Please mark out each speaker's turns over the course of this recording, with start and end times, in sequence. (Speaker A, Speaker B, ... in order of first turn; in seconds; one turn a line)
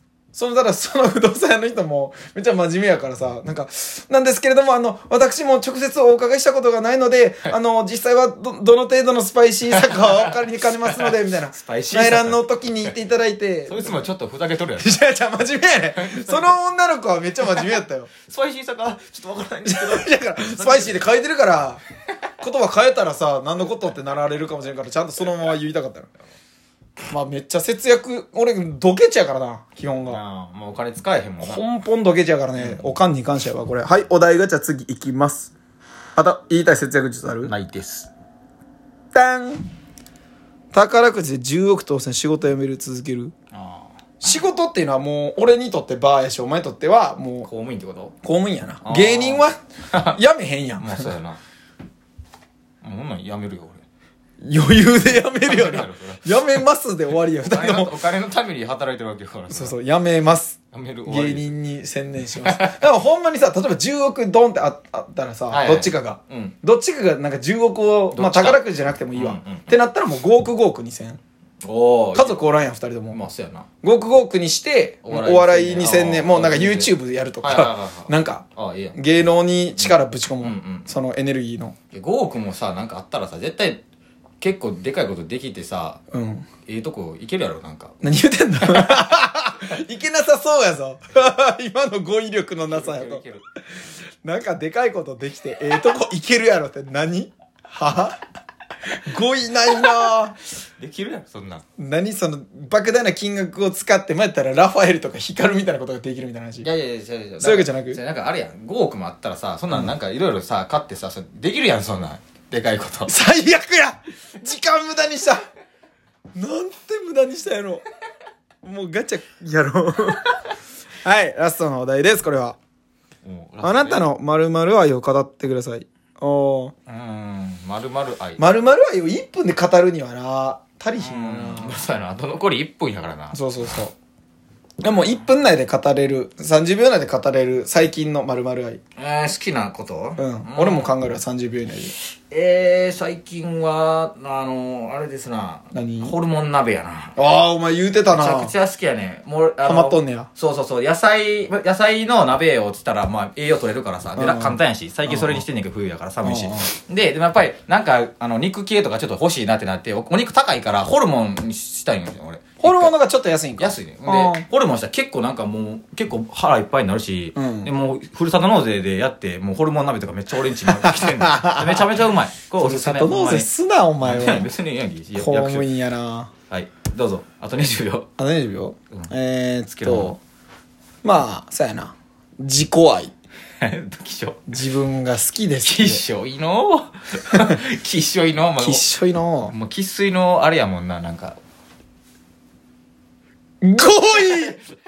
Speaker A: 0.3-14.1
Speaker B: 9.7-12.9
Speaker B: 13.7-14.9
Speaker A: 14.8-18.1
Speaker B: 15.9-16.6
Speaker B: 17.4-21.1
Speaker A: 19.6-21.8
Speaker A: 22.4-26.1
Speaker A: 27.1-30.2
Speaker B: 30.1-31.6
Speaker A: 31.4-35.5
Speaker B: 32.6-32.9
Speaker A: 36.2-37.5
Speaker B: 37.5-38.1
Speaker A: 39.1-39.7
Speaker A: 40.7-43.3
Speaker B: 43.5-44.4
Speaker A: 44.2-47.5
Speaker B: 47.4-48.1
Speaker A: 48.2-51.1
Speaker B: 48.8-50.2
Speaker B: 50.8-51.4
Speaker B: 52.8-53.8
Speaker A: 54.4-57.9
Speaker B: 55.1-56.6
Speaker B: 57.4-59.8
Speaker A: 59.5-71.2
Speaker B: 60.7-61.5
Speaker B: 62.4-62.8
Speaker B: 65.5-66.6
Speaker B: 68.1-69.7
Speaker B: 71.6-72.4
Speaker A: 72.2-73.2
Speaker B: 73.1-73.7
Speaker A: 73.8-81.8
Speaker B: 75.0-79.0
Speaker B: 79.8-80.9
Speaker B: 81.9-83.8
Speaker B: 84.4-86.0
Speaker A: 86.1-86.5
Speaker B: 86.7-88.0
Speaker A: 88.0-93.2
Speaker B: 92.7-93.5
Speaker A: 94.2-98.2
Speaker A: 98.9-100.3
Speaker B: 99.9-100.1
Speaker B: 100.8-101.7
Speaker A: 101.8-106.7
Speaker B: 106.6-113.1
Speaker A: 107.4-108.0
Speaker A: 113.1-115.4
Speaker A: 116.3-117.8
Speaker A: 118.6-120.3
Speaker A: 121.0-122.6
Speaker B: 123.2-124.0
Speaker A: 123.6-126.7
Speaker B: 126.9-128.4
Speaker A: 128.4-131.8
Speaker B: 131.0-133.4
Speaker A: 133.3-133.9
Speaker A: 134.8-138.8
Speaker B: 139.0-140.9
Speaker A: 140.2-141.9
Speaker B: 142.3-147.2
Speaker A: 145.7-146.2
Speaker A: 147.2-148.5
Speaker B: 148.1-163.0
Speaker A: 149.7-150.3
Speaker A: 154.2-155.4
Speaker A: 156.2-156.7
Speaker A: 162.6-164.4
Speaker B: 163.6-173.5
Speaker A: 167.3-167.7
Speaker A: 170.8-172.0
Speaker A: 172.6-174.5
Speaker B: 174.0-175.7
Speaker A: 175.2-176.3
Speaker B: 176.5-178.1
Speaker A: 178.2-180.2
Speaker B: 179.8-180.2
Speaker A: 181.0-183.1
Speaker B: 183.6-184.4
Speaker A: 184.5-186.0
Speaker B: 185.6-188.9
Speaker A: 188.6-189.5
Speaker B: 189.5-191.4
Speaker A: 193.6-194.6
Speaker B: 193.9-194.6